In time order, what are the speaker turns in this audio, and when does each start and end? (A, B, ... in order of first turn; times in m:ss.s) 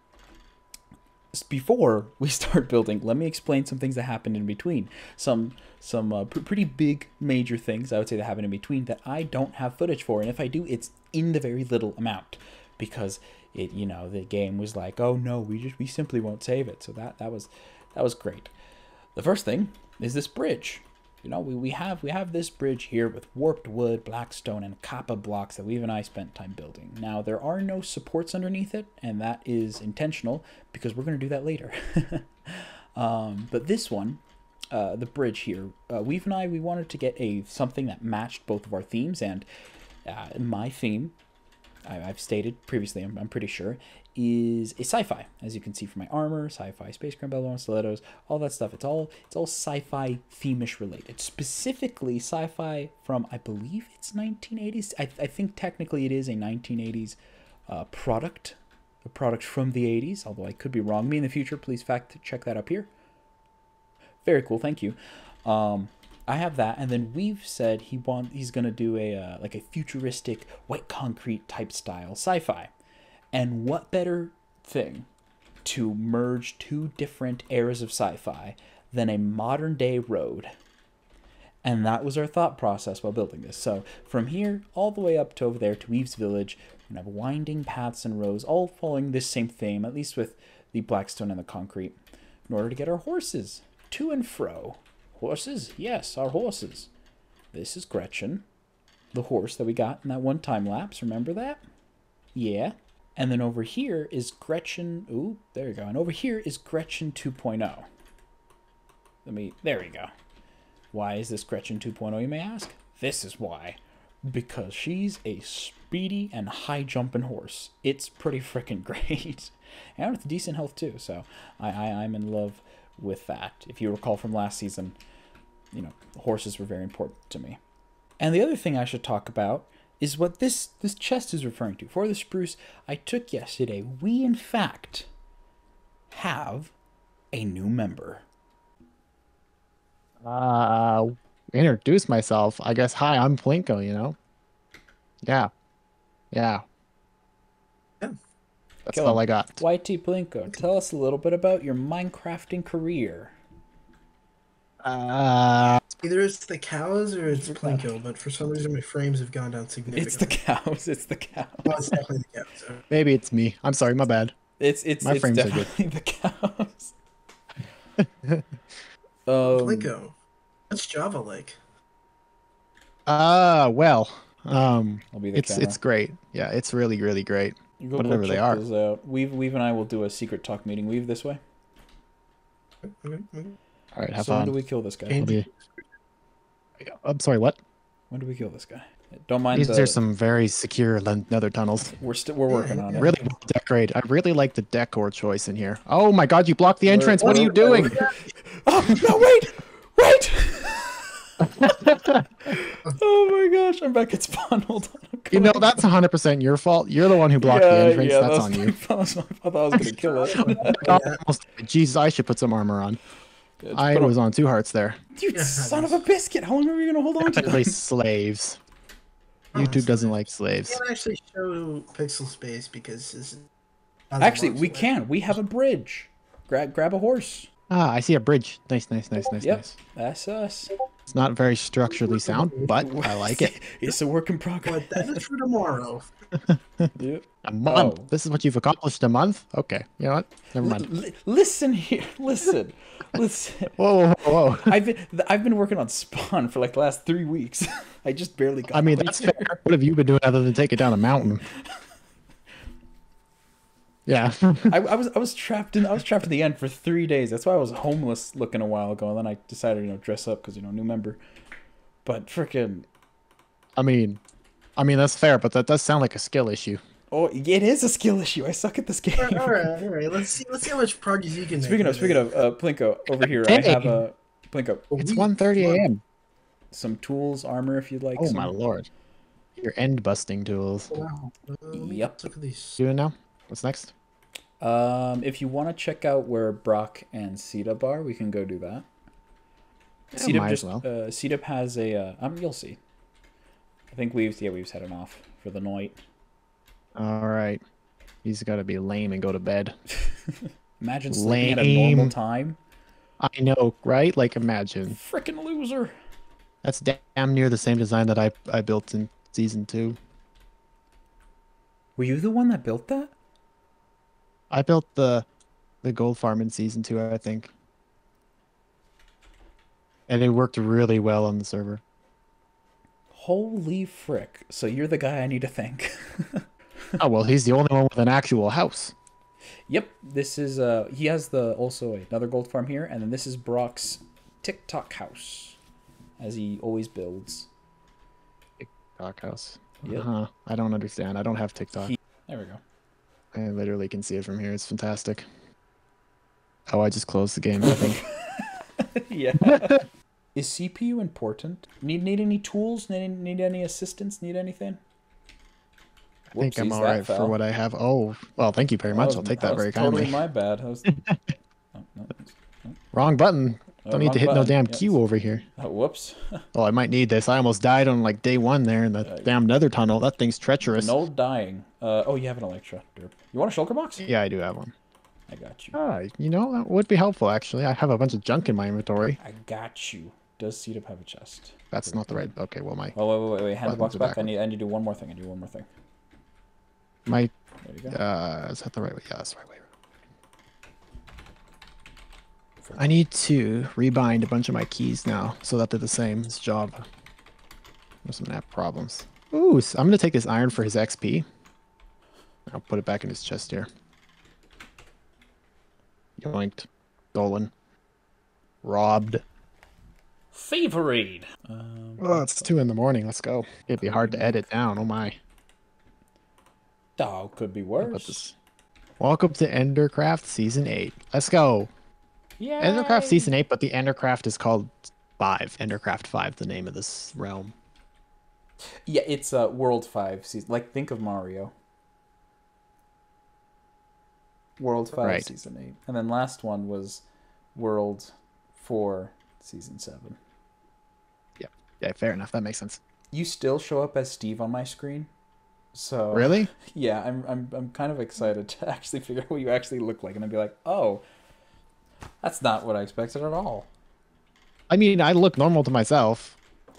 0:01.3-0:18.5 A
0:19.2-0:34.2 A
0:34.7-0:39.5 A
0:40.1-0:41.2 A
0:41.8-1:02.9 A
1:04.2-1:12.7 A
1:13.3-1:15.1 A
1:15.6-1:20.5 A
1:21.6-1:32.0 A
1:32.5-1:36.9 A
1:37.5-1:38.4 A
1:39.1-1:41.6 A
1:42.3-1:47.9 A
1:49.2-1:50.1 A
1:50.9-2:05.0 A
2:05.7-2:07.6 A
2:08.2-2:15.1 A
2:16.1-2:16.7 A
2:17.3-2:18.2 A
2:20.2-2:24.2 B
2:25.2-2:25.5 B
2:26.3-2:26.6 B
2:28.8-2:29.6 B
2:28.9-2:33.3 A
2:34.8-2:35.8 B
2:36.0-2:40.4 C
2:37.5-2:37.8 B
2:39.9-2:41.8 A
2:41.6-2:42.8 C
2:42.9-2:44.3 B
2:44.6-2:46.9 A
2:45.0-2:45.7 B
2:48.0-2:48.5 B
2:49.2-2:49.9 A
2:49.4-2:50.1 C
2:50.7-2:51.6 C
2:53.1-2:58.6 B
2:55.1-2:55.8 A
2:57.8-3:01.4 A
3:02.8-3:03.6 C
3:03.9-3:04.6 B
3:04.2-3:05.4 A
3:05.1-3:05.5 C
3:05.2-3:05.4 B
3:06.8-3:07.6 B
3:08.1-3:10.0 A
3:09.5-3:12.0 B
3:12.0-3:13.1 A
3:12.5-3:13.2 C
3:12.9-3:18.0 B
3:16.9-3:25.8 A
3:17.2-3:18.3 C
3:21.4-3:22.2 B
3:25.3-3:28.7 B
3:27.4-3:31.0 A
3:29.8-3:31.2 C
3:30.4-3:33.0 B
3:33.6-3:34.1 A
3:33.7-3:35.0 B
3:35.2-3:37.7 A
3:35.3-3:36.0 C
3:37.2-3:38.6 B
3:39.5-3:43.5 C
3:39.5-3:40.8 B
3:44.1-3:44.9 C
3:44.2-3:47.5 A
3:47.7-3:49.8 B
3:49.4-3:50.7 A
3:51.1-3:53.6 B
3:52.3-3:52.7 C
3:52.8-3:55.2 A
3:54.6-3:56.1 C
3:56.5-3:56.9 B
3:57.0-3:58.1 A
3:57.4-4:00.8 B
4:00.6-4:03.8 A
4:03.8-4:04.8 B
4:04.5-4:09.6 A
4:08.7-4:11.4 B
4:14.1-4:14.8 B
4:14.7-4:21.2 A
4:22.0-4:22.9 A
4:23.8-4:24.2 B
4:24.8-4:26.8 B
4:27.1-4:29.7 A
4:29.2-4:32.3 C
4:31.6-4:34.9 A
4:33.3-4:34.0 B
4:34.9-4:35.9 C
4:35.0-4:36.0 B
4:36.7-4:38.6 A
4:38.2-4:38.9 B
4:39.6-4:40.9 B
4:40.9-4:42.8 C
4:41.7-4:42.2 A
4:42.8-4:43.9 B
4:44.6-4:48.9 A
4:50.1-4:52.8 A
4:50.1-4:50.8 B
4:53.9-4:56.0 A
4:57.0-4:57.6 B
4:58.2-4:59.7 B
5:00.0-5:02.6 A
5:01.1-5:02.1 B
5:03.2-5:05.0 B
5:04.9-5:05.9 A
5:06.6-5:10.0 B
5:12.0-5:13.1 A
5:14.5-5:15.2 B
5:15.8-5:17.5 B
5:20.1-5:21.8 B
5:23.1-5:27.0 A
5:27.0-5:28.9 B
5:29.7-5:35.6 A
5:36.2-5:37.5 A
5:38.6-5:41.9 B
5:41.8-5:42.6 A
5:43.3-5:45.2 B
5:46.7-5:48.0 B
5:47.7-5:54.8 A
5:49.4-5:49.8 B
5:56.3-5:57.4 A
5:56.4-6:00.2 B
5:58.9-6:00.9 A
6:00.8-6:01.2 B
6:01.7-6:02.8 A
6:02.9-6:05.4 B
6:03.8-6:05.0 A
6:05.6-6:06.4 A
6:06.5-6:11.0 B
6:09.0-6:09.3 A
6:10.7-6:14.0 A
6:14.0-6:14.7 B
6:15.3-6:15.7 A
6:15.7-6:19.2 B
6:19.2-6:22.3 A
6:21.7-6:22.9 B
6:22.9-6:25.7 A
6:23.7-6:24.3 B
6:27.1-6:27.3 B
6:27.6-6:28.0 A
6:27.9-6:29.7 B
6:32.6-6:33.0 A
6:32.8-6:36.9 B
6:38.0-6:41.2 B
6:42.5-6:43.7 B
6:46.2-6:47.5 B
6:48.6-6:49.2 B
6:50.3-6:52.5 A
6:52.0-6:55.2 B
6:53.8-6:54.5 A
6:57.0-6:58.3 A
6:57.8-6:58.3 B
6:59.0-7:01.7 B
7:02.4-7:03.3 A
7:02.6-7:07.5 B
7:08.8-7:11.5 A
7:14.6-7:17.0 A
7:15.0-7:15.3 B
7:17.6-7:20.2 A
7:21.4-7:22.8 B
7:23.1-7:25.1 A
7:25.7-7:31.0 A
7:26.1-7:26.5 B
7:32.2-7:33.7 A
7:34.7-7:36.4 B